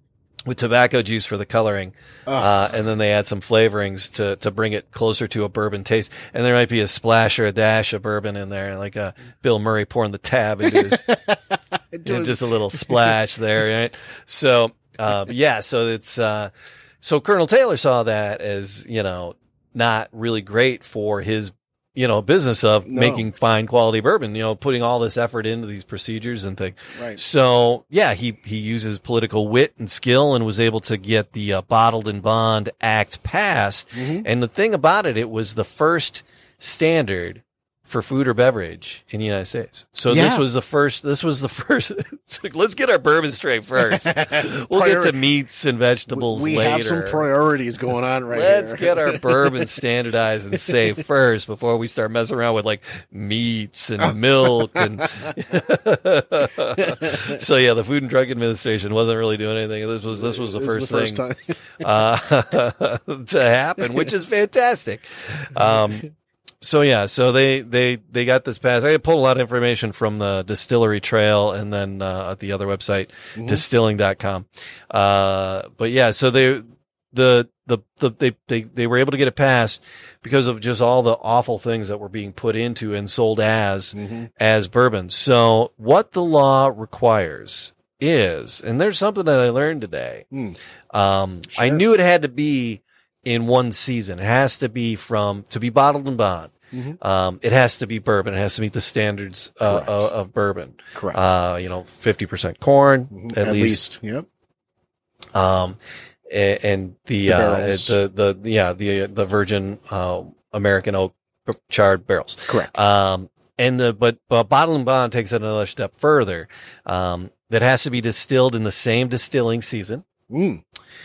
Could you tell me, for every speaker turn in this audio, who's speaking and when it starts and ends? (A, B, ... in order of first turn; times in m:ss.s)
0:00.4-0:11.1 A
0:02.3-0:02.5 B
0:10.6-0:13.2 B
0:12.0-0:47.3 A
0:22.9-0:23.3 B
0:27.0-0:27.2 B
0:33.9-0:34.3 B
0:40.1-0:40.4 B
0:43.8-0:45.2 B
0:46.1-0:49.2 B
0:48.3-1:01.2 A
0:56.8-0:57.4 B
1:00.1-1:01.5 B
1:01.8-1:06.1 A
1:06.6-1:30.3 A
1:13.4-1:13.6 B
1:24.0-1:24.3 B
1:30.3-1:30.6 B
1:30.9-1:43.8 A
1:31.5-1:31.8 B
1:36.7-1:37.0 B
1:39.6-1:40.1 B
1:40.9-1:41.3 B
1:43.1-1:44.2 B
1:45.3-2:00.0 A
1:47.2-1:48.0 B
1:52.5-1:52.7 B
2:00.3-2:00.6 B